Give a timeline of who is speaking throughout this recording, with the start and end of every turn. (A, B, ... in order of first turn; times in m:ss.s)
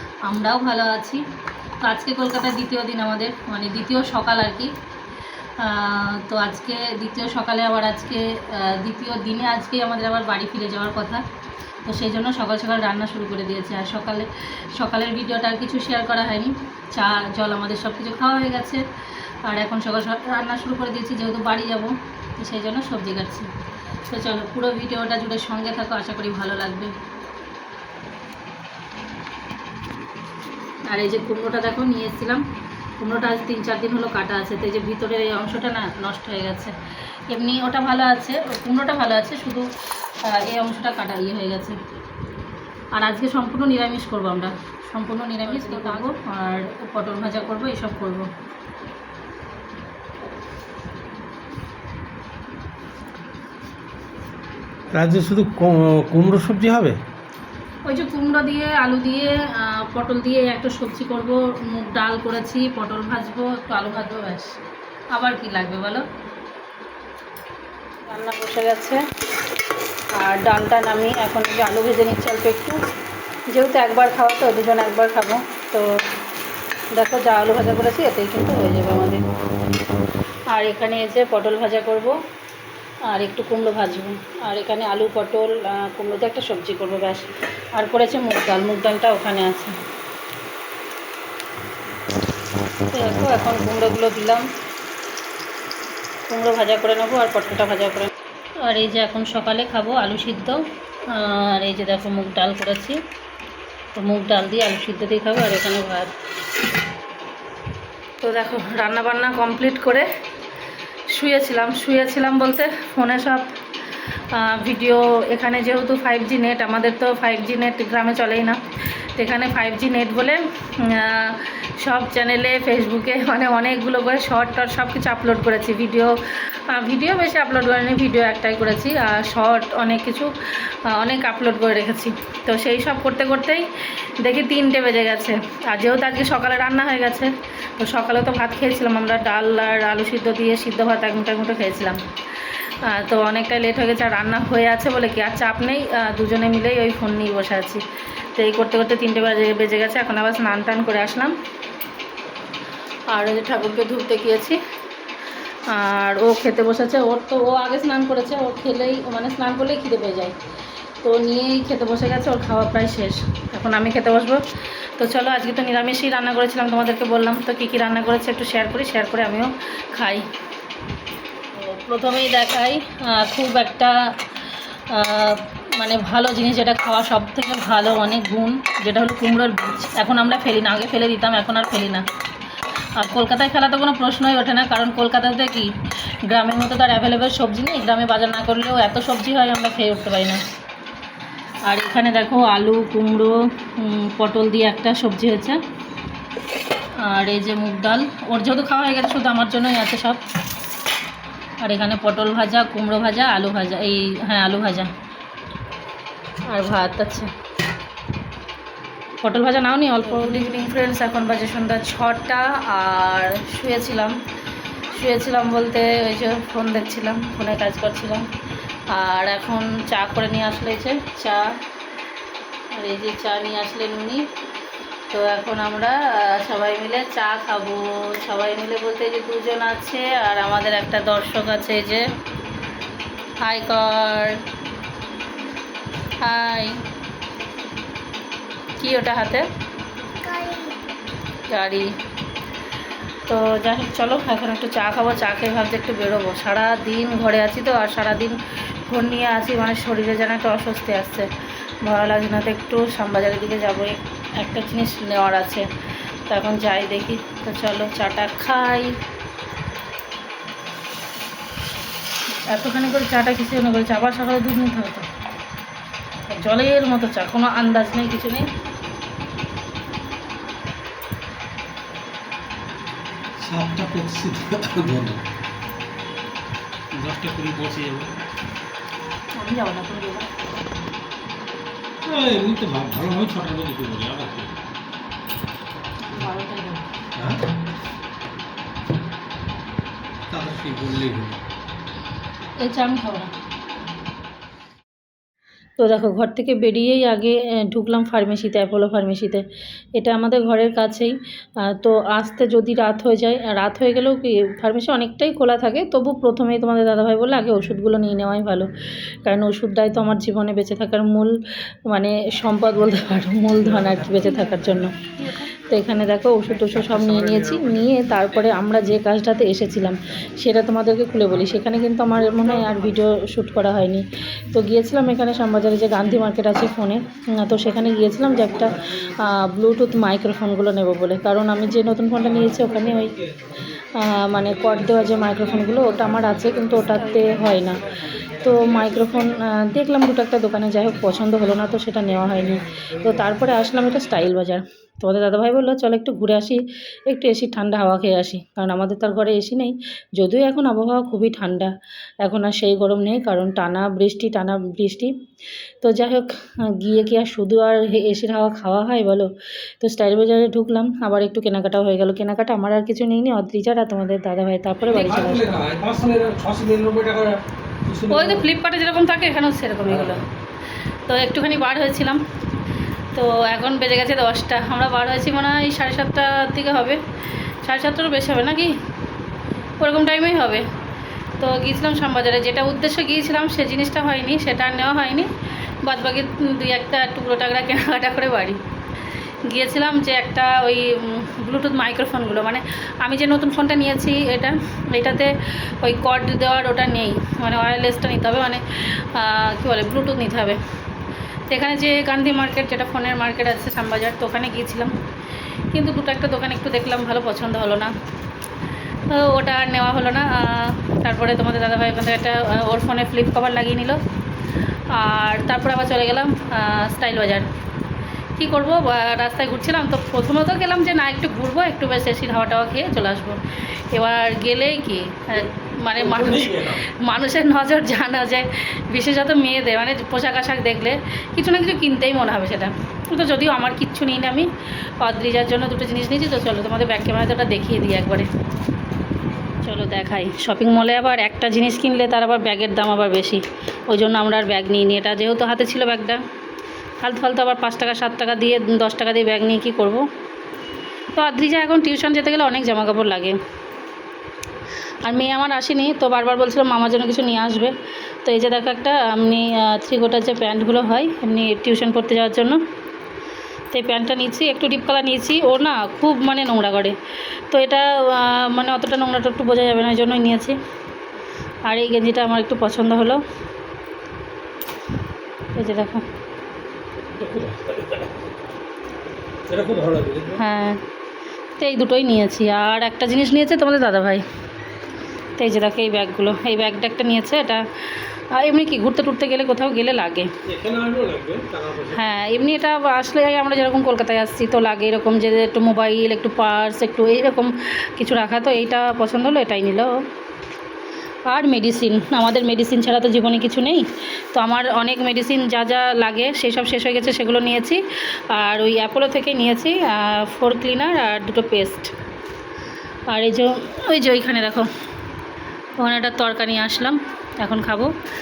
0:00.2-0:01.2 A
0:01.8-0:04.7 A
0:05.6-0:11.2 A
0:11.8-0:18.8 A
0:19.4-0:23.5 A
0:24.1-0:26.9 A
0:30.9-0:32.4 A
0:33.0-0:36.8 A
0:37.3-0:39.7 A
0:40.2-0:41.8 A
0:43.0-0:48.3 A
0:54.9-0:57.0 B
0:57.8-1:04.6 A
1:05.1-1:06.1 A
1:08.1-1:09.0 A
1:10.2-1:12.8 A
1:13.5-1:15.9 A
1:17.0-1:19.2 A
1:20.5-1:22.2 A
1:23.1-1:29.8 A
1:32.9-1:34.5 A
1:36.3-1:43.0 A
1:44.0-1:46.1 A
1:48.2-1:50.1 A
1:51.1-1:53.5 A
1:54.3-2:27.8 A
2:28.4-2:31.4 A
2:33.1-2:34.6 A
2:35.7-2:40.4 A
2:41.0-2:44.4 A
2:45.0-2:50.3 A
2:51.6-2:54.0 A
2:54.9-3:02.0 A
3:03.0-3:05.7 A
3:06.3-3:10.4 A
3:11.6-3:15.6 A
3:17.0-3:20.2 A
3:21.6-3:24.9 A
3:26.5-3:27.3 A
3:29.2-3:34.2 A
3:34.9-3:38.3 A
3:38.9-3:41.5 A
3:42.7-3:44.3 A
3:45.1-3:52.1 A
3:53.4-3:54.4 A
3:56.2-3:56.8 A
3:58.8-3:59.5 A
4:01.5-4:01.9 A
4:03.3-4:11.3 A
4:11.8-4:15.7 A
4:16.3-4:19.0 A
4:22.4-4:25.1 A
4:26.3-4:28.5 A
4:33.4-4:35.2 B
4:37.0-4:38.1 B
4:39.4-4:40.3 A
4:42.0-4:44.5 B
4:46.1-4:46.8 A
4:47.2-4:47.4 B
4:50.3-4:51.4 B
4:52.6-4:53.3 A
4:55.8-4:59.4 A
5:00.0-5:08.7 A
5:09.2-5:11.4 A
5:11.9-5:15.0 A
5:15.7-5:33.2 A
5:34.0-5:37.8 A
5:38.4-5:51.7 A
5:52.2-5:55.1 A
5:55.8-6:05.6 A
6:04.9-6:08.5 B
6:08.1-6:10.2 A
6:09.9-6:10.2 B
6:11.1-6:12.2 A
6:13.2-6:17.0 A
6:17.6-6:18.8 A
6:19.8-6:20.7 A
6:21.4-6:25.3 A
6:25.8-6:28.6 A
6:29.5-6:40.6 A
6:41.5-6:44.9 A
6:45.7-6:47.9 A
6:49.1-6:54.0 A
6:54.9-6:57.5 A
6:58.4-7:18.3 A
7:06.0-7:06.8 B
7:19.6-7:26.2 A
7:27.0-7:30.0 A
7:31.1-7:33.4 A
7:35.0-7:37.7 A
7:38.2-7:42.6 A
7:43.7-7:47.0 A
7:47.5-7:50.6 A
7:51.7-7:53.2 A
7:55.6-7:56.0 A
7:57.2-7:58.2 B
7:59.5-8:00.4 B
8:00.4-8:00.8 A
8:01.6-8:04.2 A
8:05.4-8:10.3 A
8:10.4-8:12.0 B
8:11.9-8:20.0 A
8:21.3-8:31.9 A
8:33.1-8:34.7 A
8:35.8-8:37.9 A